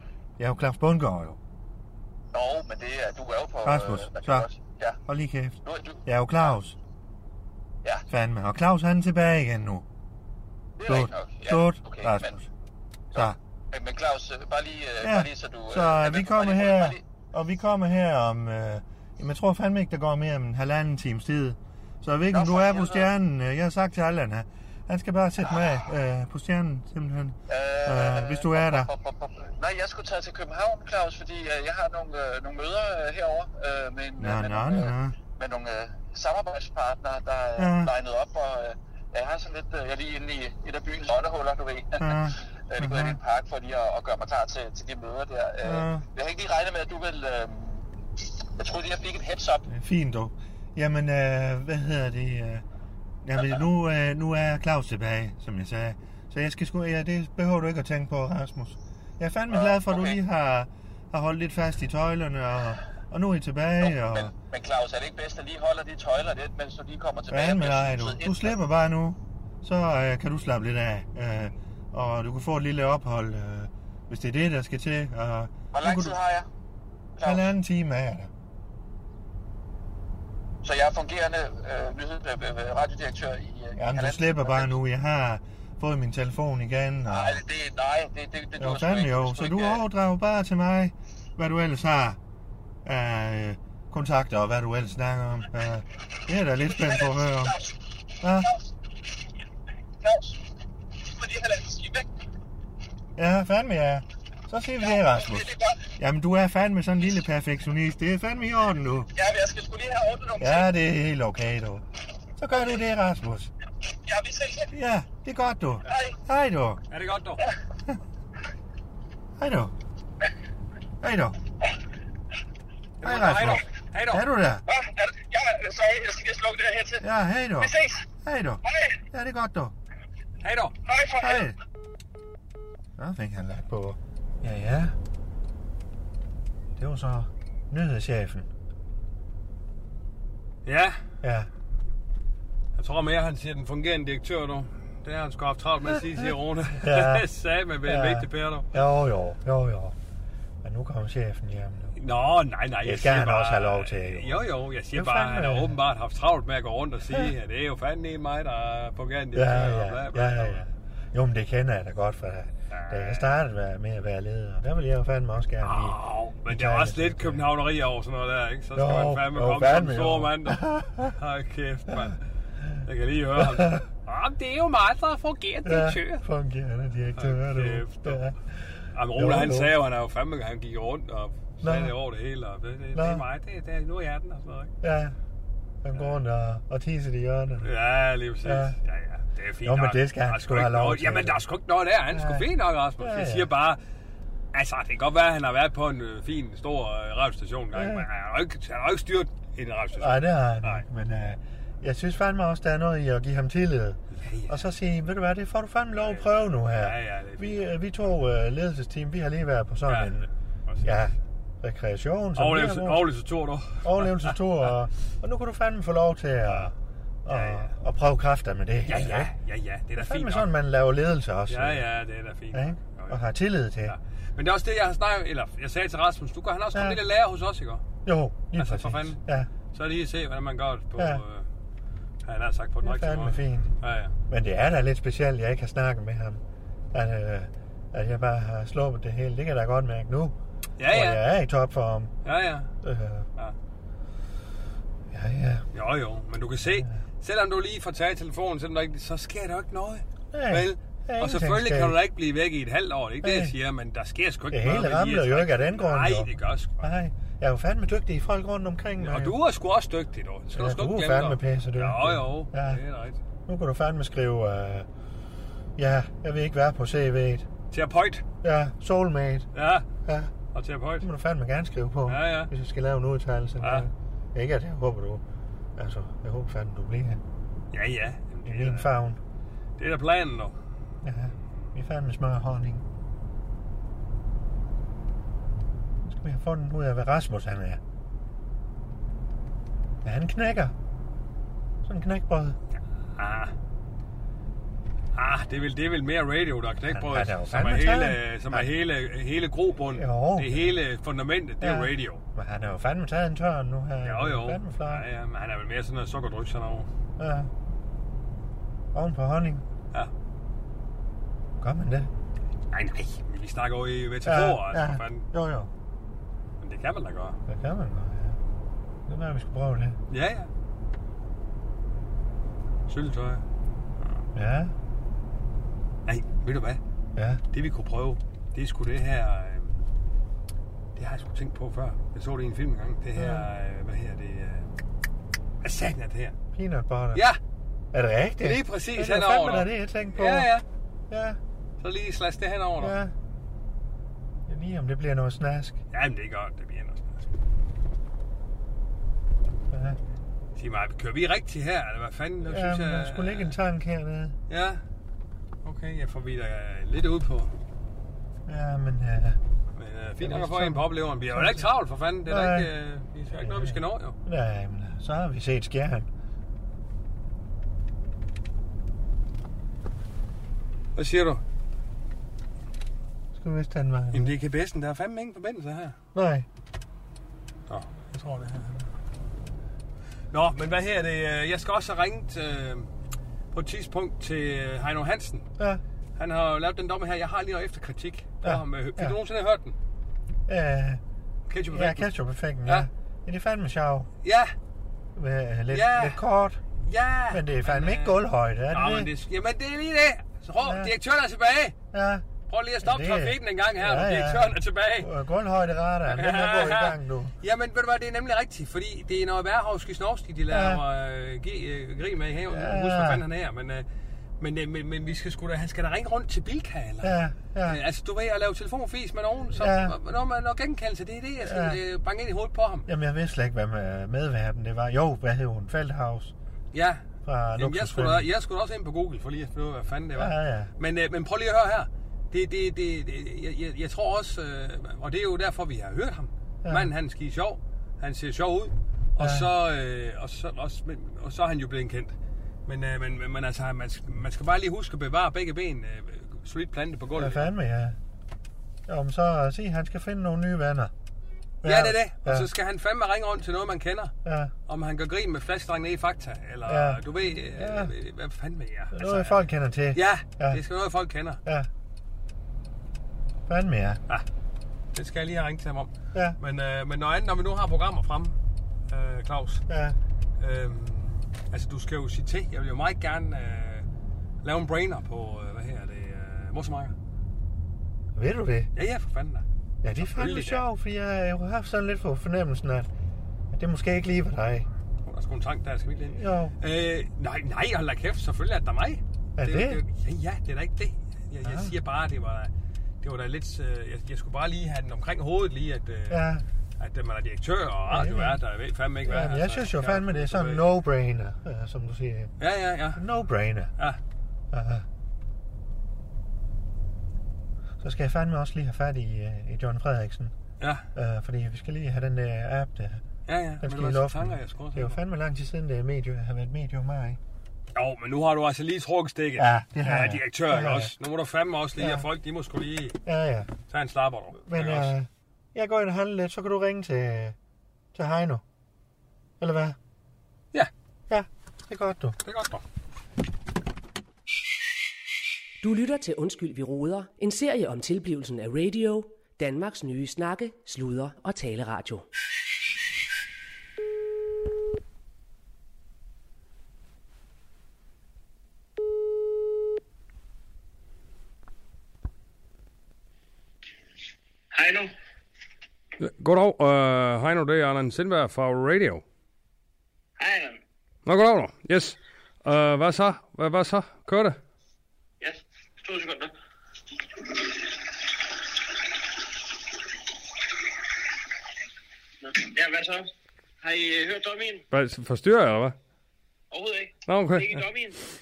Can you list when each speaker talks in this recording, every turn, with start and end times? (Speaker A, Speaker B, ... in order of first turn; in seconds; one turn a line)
Speaker A: 0.4-1.4
Speaker B: 2.3-5.0
Speaker A: 3.6-4.5
Speaker A: 5.1-6.8
Speaker B: 5.6-6.0
Speaker A: 8.1-9.8
Speaker B: 10.8-12.4
Speaker A: 10.9-12.4
Speaker B: 13.1-17.0
Speaker A: 15.0-28.9
Speaker B: 22.3-23.1
Speaker B: 27.5-47.9
Speaker A: 34.2-35.2
Speaker A: 37.6-37.9
Speaker A: 42.0-43.2
Speaker A: 45.6-46.0
Speaker B: 48.6-49.6
Speaker A: 49.7-52.6
Speaker A: 53.2-64.3
Speaker B: 59.5-60.2
Speaker B: 63.8-68.5
Speaker A: 67.3-76.1
Speaker B: 75.7-76.5
Speaker B: 77.2-77.4
Speaker A: 77.2-78.3
Speaker B: 80.6-84.7
Speaker A: 83.8-87.4
Speaker B: 87.1-89.8
Speaker A: 88.6-92.2
Speaker A: 92.8-97.6
Speaker B: 96.7-98.6
Speaker A: 98.2-98.5
Speaker B: 100.0-102.1
Speaker A: 103.2-109.1
Speaker B: 104.8-105.9
Speaker B: 109.1-110.7
Speaker A: 110.4-111.8
Speaker A: 112.4-113.5
Speaker B: 114.0-114.7
Speaker A: 114.7-116.8
Speaker B: 115.9-116.2
Speaker C: 116.9-117.4
Speaker A: 119.4-119.7
Speaker A: 121.0-121.4
Speaker C: 123.0-124.2
Speaker A: 123.0-124.6
Speaker B: 124.7-127.1
Speaker A: 127.0-129.7
Speaker B: 127.6-128.1
Speaker B: 128.6-129.0
Speaker C: 130.4-130.7
Speaker B: 130.8-131.5
Speaker A: 131.2-131.6
Speaker A: 133.0-134.9
Speaker A: 136.8-138.5
Speaker C: 140.6-141.0
Speaker A: 141.2-141.5
Speaker C: 142.8-148.8
Speaker A: 146.7-147.2
Speaker A: 147.8-149.9
Speaker A: 150.6-151.9
Speaker C: 151.9-160.6
Speaker A: 152.8-155.8
Speaker A: 159.3-167.5
Speaker C: 162.7-163.3
Speaker C: 165.6-172.2
Speaker A: 168.7-171.1
Speaker C: 172.8-176.2
Speaker A: 173.4-173.8
Speaker A: 175.6-179.7
Speaker C: 177.2-178.3
Speaker C: 178.9-184.7
Speaker A: 181.6-181.9
Speaker A: 182.9-183.2
Speaker A: 184.8-185.2
Speaker A: 185.8-187.7
Speaker C: 185.9-186.2
Speaker C: 187.6-193.8
Speaker A: 188.4-188.8
Speaker A: 189.6-191.4
Speaker A: 192.1-192.5
Speaker A: 193.0-193.5
Speaker C: 194.5-200.8
Speaker A: 197.7-198.1
Speaker A: 199.9-210.3
Speaker C: 204.1-204.7
Speaker C: 205.9-207.7
Speaker C: 209.9-210.1
Speaker A: 210.8-213.1
Speaker C: 212.3-214.4
Speaker A: 213.8-216.7
Speaker C: 216.5-216.7
Speaker A: 217.2-219.3
Speaker C: 217.3-217.7
Speaker C: 218.8-220.5
Speaker A: 220.0-221.8
Speaker C: 221.5-223.2
Speaker A: 222.5-223.9
Speaker C: 223.8-227.8
Speaker A: 226.7-227.0
Speaker A: 228.0-229.5
Speaker C: 228.5-229.2
Speaker C: 229.7-231.5
Speaker A: 231.0-231.2
Speaker C: 232.2-234.1
Speaker A: 232.8-236.4
Speaker A: 236.9-240.3
Speaker C: 240.8-241.2
Speaker A: 240.9-242.1
Speaker C: 242.2-242.7
Speaker A: 242.8-243.3
Speaker A: 245.1-245.6
Speaker C: 245.7-256.8
Speaker A: 246.7-247.0
Speaker A: 250.3-252.0
Speaker A: 253.2-253.5
Speaker A: 254.5-259.4
Speaker C: 259.0-263.2
Speaker A: 260.5-262.8
Speaker A: 263.5-264.9
Speaker A: 265.8-267.5
Speaker C: 267.7-268.2
Speaker A: 268.4-269.5
Speaker C: 269.5-269.9
Speaker A: 270.0-270.3
Speaker C: 270.5-271.1
Speaker A: 271.0-275.2
Speaker C: 272.1-272.5
Speaker C: 273.6-273.9
Speaker A: 275.8-277.2
Speaker C: 277.7-278.9
Speaker A: 278.4-279.2
Speaker C: 279.8-280.6
Speaker A: 281.0-282.8
Speaker A: 286.0-287.8
Speaker A: 290.0-290.7
Speaker A: 291.8-292.6
Speaker C: 293.1-293.5
Speaker C: 295.1-302.2
Speaker A: 296.9-298.7
Speaker A: 299.9-300.7
Speaker A: 301.6-305.0
Speaker C: 304.0-306.9
Speaker A: 307.2-307.5
Speaker A: 308.9-309.6
Speaker A: 311.6-312.1
Speaker C: 312.7-315.3
Speaker A: 314.2-315.7
Speaker C: 316.6-317.4
Speaker A: 317.5-318.4
Speaker A: 319.1-320.0
Speaker C: 320.1-320.5
Speaker C: 322.9-323.4
Speaker A: 324.3-324.7
Speaker C: 326.1-326.8
Speaker A: 327.1-327.4
Speaker C: 327.5-329.8
Speaker C: 330.9-334.7
Speaker A: 333.1-333.4
Speaker C: 335.6-336.4
Speaker A: 336.5-337.2
Speaker C: 337.1-337.4
Speaker A: 337.9-340.5
Speaker C: 338.4-340.6
Speaker A: 341.1-341.4
Speaker C: 341.8-343.0
Speaker A: 342.8-343.1
Speaker A: 344.5-345.8
Speaker C: 345.9-347.3
Speaker A: 349.7-350.0
Speaker C: 350.6-353.5
Speaker A: 352.4-354.3
Speaker C: 354.5-354.8
Speaker C: 355.6-357.5
Speaker A: 358.5-359.4
Speaker C: 359.8-364.1
Speaker A: 360.2-361.7
Speaker A: 362.3-362.7
Speaker A: 363.3-366.1
Speaker C: 370.9-371.4
Speaker A: 373.3-374.3
Speaker C: 374.1-376.0
Speaker A: 376.1-376.5
Speaker C: 377.7-378.9
Speaker C: 380.3-382.9
Speaker C: 383.5-385.5
Speaker C: 386.1-389.8
Speaker A: 388.4-389.1
Speaker A: 390.5-391.0
Speaker C: 391.5-392.1
Speaker A: 391.7-394.1
Speaker C: 394.2-394.5
Speaker A: 395.1-396.6
Speaker C: 395.7-396.2
Speaker C: 396.8-398.2
Speaker A: 397.3-399.1
Speaker C: 398.7-401.7
Speaker A: 400.6-400.9
Speaker A: 401.9-402.2
Speaker C: 402.5-405.1
Speaker A: 402.8-407.3
Speaker C: 406.1-413.9
Speaker A: 410.5-410.8
Speaker A: 412.5-413.2
Speaker C: 414.4-422.9
Speaker A: 417.0-417.8
Speaker A: 419.6-419.9
Speaker A: 421.4-421.8
Speaker A: 422.9-426.3
Speaker C: 426.7-427.0
Speaker A: 427.2-428.2
Speaker C: 427.6-442.1
Speaker A: 430.1-430.7
Speaker A: 436.6-436.9
Speaker A: 439.2-439.5
Speaker C: 442.6-447.5
Speaker A: 447.1-448.0
Speaker A: 448.9-450.9
Speaker A: 451.6-452.5
Speaker C: 451.6-454.1
Speaker A: 454.2-454.5
Speaker C: 454.7-461.4
Speaker A: 456.6-457.9
Speaker A: 458.9-460.6
Speaker A: 463.5-464.0
Speaker C: 464.9-468.4
Speaker C: 468.9-469.6
Speaker A: 469.7-469.9
Speaker C: 470.4-473.9
Speaker C: 474.4-476.9
Speaker A: 478.1-478.7
Speaker C: 478.7-479.4
Speaker A: 479.8-482.9
Speaker C: 479.9-480.6
Speaker A: 483.5-484.7
Speaker C: 485.0-496.3
Speaker A: 486.1-486.5
Speaker A: 489.4-489.8
Speaker A: 491.4-491.7
Speaker A: 496.1-496.4
Speaker C: 496.8-500.7
Speaker A: 497.9-498.4
Speaker A: 499.0-502.3
Speaker C: 502.4-503.0
Speaker A: 502.9-503.7
Speaker A: 504.5-504.9
Speaker A: 507.8-510.3
Speaker C: 510.6-510.9
Speaker A: 510.9-513.0
Speaker C: 513.2-515.0
Speaker A: 513.6-517.2
Speaker C: 517.7-523.0
Speaker A: 519.4-520.9
Speaker A: 521.8-522.0
Speaker A: 523.0-523.5
Speaker C: 523.7-524.9
Speaker A: 524.4-527.4
Speaker A: 527.9-528.4
Speaker A: 529.4-529.8
Speaker A: 531.1-532.2
Speaker C: 532.2-532.6
Speaker D: 535.6-542.1
Speaker E: 554.5-554.9
Speaker C: 556.0-559.0
Speaker E: 560.2-560.6
Speaker C: 561.0-564.4
Speaker E: 565.2-566.3
Speaker E: 567.2-567.6
Speaker E: 572.2-573.1
Speaker E: 573.6-574.6
Speaker C: 574.7-575.8
Speaker E: 576.5-578.0
Speaker C: 577.1-577.6